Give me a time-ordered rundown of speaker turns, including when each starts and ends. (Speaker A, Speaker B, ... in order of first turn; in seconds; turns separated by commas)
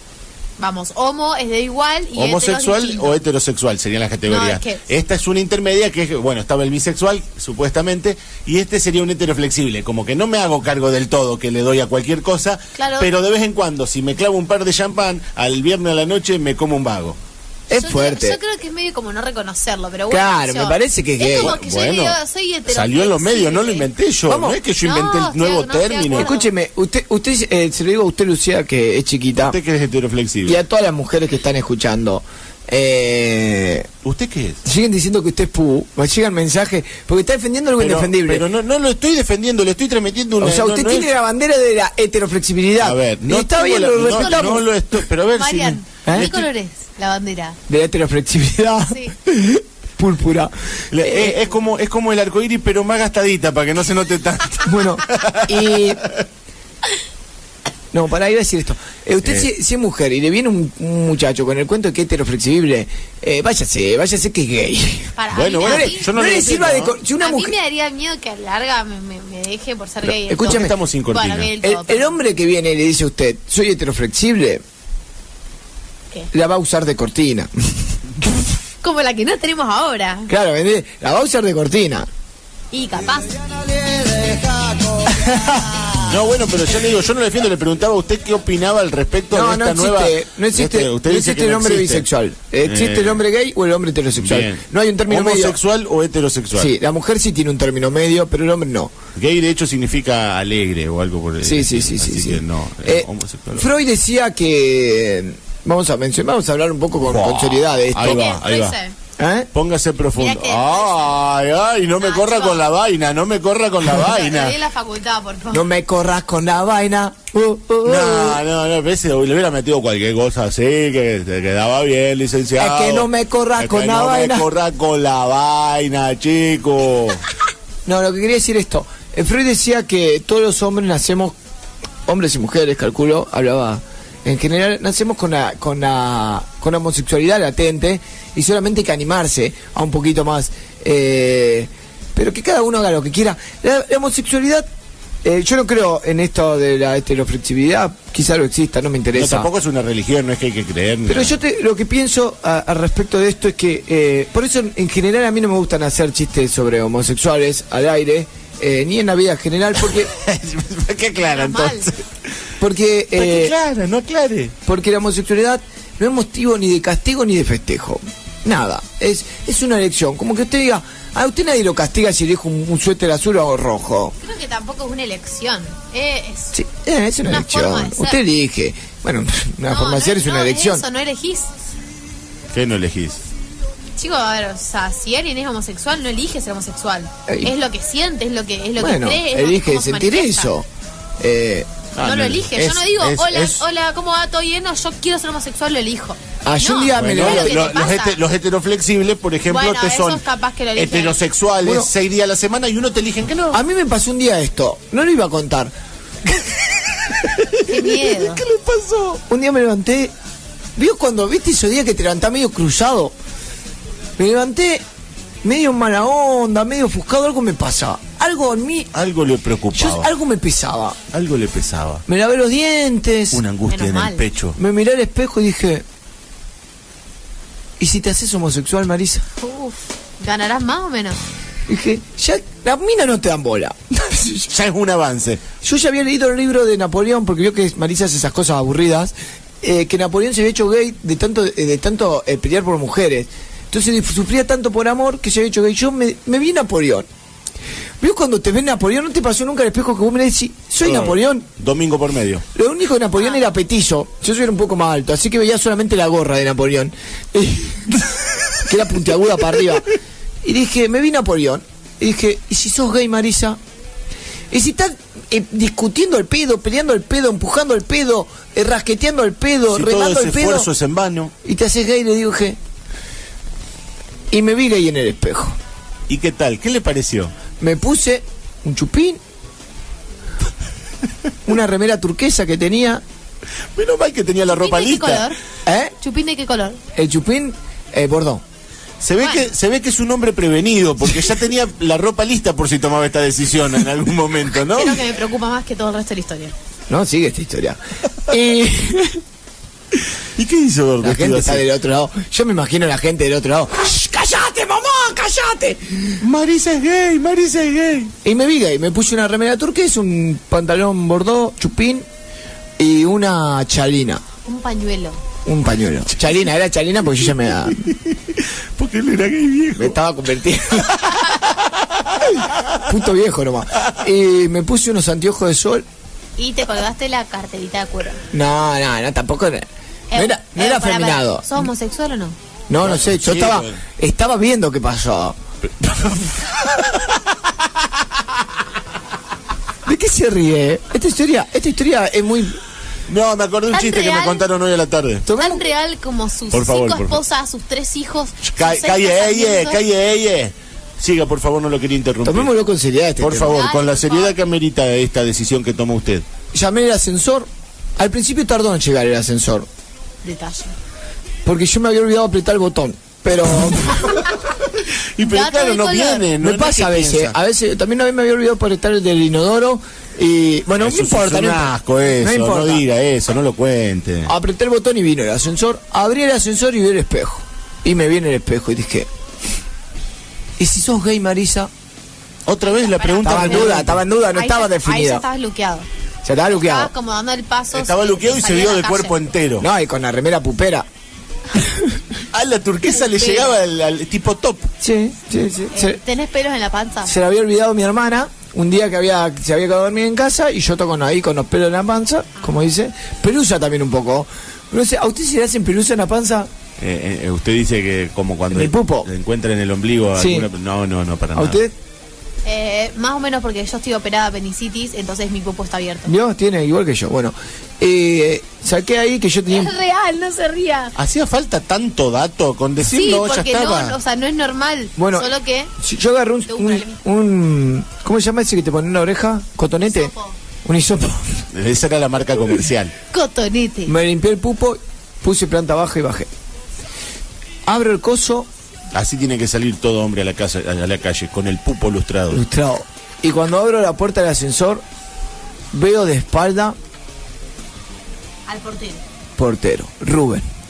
Speaker A: 0.6-3.2, Speaker B: 2.1-17.2, Speaker A: 4.3-4.8, Speaker A: 12.8-13.1, Speaker C: 17.7-18.4, Speaker A: 17.7-23.9, Speaker C: 20.1-21.6, Speaker B: 21.4-26.3, Speaker C: 24.3-24.6, Speaker A: 24.8-26.5, Speaker C: 26.1-29.6, Speaker B: 29.4-30.6, Speaker C: 30.5-33.9, Speaker B: 34.0-34.6, Speaker C: 34.6-38.4, Speaker B: 37.8-41.1, Speaker C: 40.4-44.7, Speaker B: 42.8-46.5, Speaker A: 44.1-44.5, Speaker A: 45.4-47.6, Speaker C: 47.7-51.4, Speaker A: 48.9-49.1, Speaker B: 50.9-55.9, Speaker C: 54.6-56.0, Speaker C: 57.9-67.6, Speaker A: 65.2-66.1, Speaker B: 65.3-67.0, Speaker A: 67.2-72.2, Speaker C: 70.0-70.8, Speaker B: 70.4-71.5, Speaker C: 71.6-74.6, Speaker C: 76.3-77.5, Speaker A: 78.8-80.3, Speaker C: 80.3-82.1, Speaker A: 82.7-83.3, Speaker C: 85.1-85.7, Speaker B: 86.0-92.1, Speaker C: 89.3-95.6, Speaker B: 92.6-93.2, Speaker B: 94.2-96.7, Speaker C: 96.5-98.9, Speaker B: 99.2-103.7, Speaker C: 101.4-108.4, Speaker B: 107.0-108.8, Speaker A: 108.0-109.0, Speaker C: 109.2-109.5, Speaker B: 109.5-114.6, Speaker A: 110.2-111.2, Speaker A: 112.0-112.7, Speaker A: 114.0-115.7, Speaker C: 115.5-118.4, Speaker B: 117.8-127.2, Speaker C: 122.6-124.5, Speaker C: 127.9-131.3, Speaker C: 132.1-144.7, Speaker C: 145.2-149.5, Speaker B: 149.1-151.4, Speaker C: 151.1-160.1, Speaker B: 159.8-162.0, Speaker A: 161.3-161.9, Speaker C: 162.6-163.5, Speaker B: 163.2-164.6, Speaker C: 164.7-174.2, Speaker A: 174.2-176.6, Speaker C: 176.5-180.8, Speaker A: 177.2-178.2, Speaker A: 179.7-181.5, Speaker B: 182.5-183.2, Speaker A: 184.0-190.5, Speaker C: 187.3-187.5, Speaker C: 188.8-190.7, Speaker C: 191.2-191.7, Speaker B: 192.0-193.6, Speaker A: 192.0-198.2, Speaker C: 192.6-192.8, Speaker C: 196.4-197.8, Speaker B: 196.9-200.2, Speaker A: 199.5-201.2, Speaker B: 200.8-203.6, Speaker C: 201.6-201.9, Speaker C: 203.5-205.7, Speaker C: 206.3-206.7, Speaker C: 207.4-210.1, Speaker A: 207.7-208.4, Speaker C: 210.8-213.1, Speaker C: 214.2-214.8, Speaker C: 215.4-218.9, Speaker B: 218.9-220.1, Speaker C: 219.7-221.0, Speaker B: 221.1-222.0, Speaker C: 222.1-223.4, Speaker B: 223.3-224.6, Speaker A: 223.7-224.2, Speaker C: 224.6-225.8, Speaker C: 227.8-229.2, Speaker A: 229.4-231.2, Speaker C: 231.7-234.5, Speaker B: 234.5-235.4, Speaker C: 235.6-247.1, Speaker C: 248.0-251.5, Speaker B: 250.8-252.4, Speaker C: 252.5-259.9, Speaker A: 253.2-253.5, Speaker C: 260.4-263.6, Speaker C: 264.5-270.7, Speaker B: 269.7-271.3, Speaker C: 271.4-272.6, Speaker C: 274.3-275.6, Speaker B: 276.1-277.3, Speaker C: 277.6-279.2, Speaker C: 281.5-283.0, Speaker B: 283.8-285.3, Speaker A: 284.5-285.4, Speaker C: 285.7-285.9, Speaker A: 286.0-286.8, Speaker C: 287.0-288.4, Speaker B: 289.0-295.0, Speaker A: 289.2-289.5, Speaker A: 294.7-296.6, Speaker C: 296.9-299.2, Speaker B: 300.4-301.6, Speaker C: 301.0-306.2, Speaker B: 306.2-308.1, Speaker C: 308.2-312.1, Speaker C: 312.8-314.2, Speaker A: 314.4-315.2, Speaker C: 315.4-317.9, Speaker B: 317.5-320.0, Speaker C: 319.8-321.1, Speaker B: 320.8-322.8, Speaker C: 322.4-325.9, Speaker A: 326.4-328.2, Speaker C: 328.3-331.7, Speaker A: 330.1-332.4, Speaker C: 332.7-335.4, Speaker B: 332.8-333.8, Speaker B: 335.8-337.2, Speaker C: 339.9-342.6, Speaker B: 343.1-345.3, Speaker A: 343.7-344.5, Speaker C: 345.3-345.7, Speaker A: 345.3-349.8, Speaker B: 346.5-347.2, Speaker B: 348.5-352.5, Speaker C: 352.2-353.6, Speaker B: 353.2-356.2, Speaker A: 353.4-354.4, Speaker C: 356.5-359.7, Speaker A: 360.2-360.7, Speaker C: 361.4-364.3, Speaker B: 365.2-367.4, Speaker A: 365.2-366.3, Speaker C: 366.4-372.9, Speaker B: 370.8-374.3, Speaker C: 374.2-379.1, Speaker C: 380.6-381.7, Speaker B: 382.5-384.0, Speaker A: 382.6-385.9, Speaker C: 383.2-385.2, Speaker C: 386.2-386.9, Speaker A: 386.5-389.3, Speaker B: 387.7-389.7, Speaker C: 389.6-390.9, Speaker C: 391.5-392.0, Speaker B: 392.3-394.7, Speaker A: 392.9-393.6, Speaker C: 394.8-396.0, Speaker A: 395.7-397.1, Speaker C: 397.0-406.5, Speaker B: 406.8-411.6, Speaker C: 408.5-409.1, Speaker C: 410.2-410.5, Speaker C: 411.4-411.7, Speaker A: 412.4-416.1, Speaker C: 416.1-419.8, Speaker A: 419.5-420.9, Speaker B: 421.0-424.0, Speaker A: 422.9-425.7, Speaker C: 425.0-430.1, Speaker A: 426.5-427.0, Speaker A: 429.9-430.4, Speaker C: 430.6-431.4, Speaker B: 431.5-432.9, Speaker A: 433.1-433.9, Speaker C: 433.9-436.3, Speaker C: 437.7-438.5, Speaker B: 438.9-442.4, Speaker C: 442.3-444.8, Speaker C: 445.7-446.8, Speaker A: 448.5-449.0, Speaker C: 449.4-450.4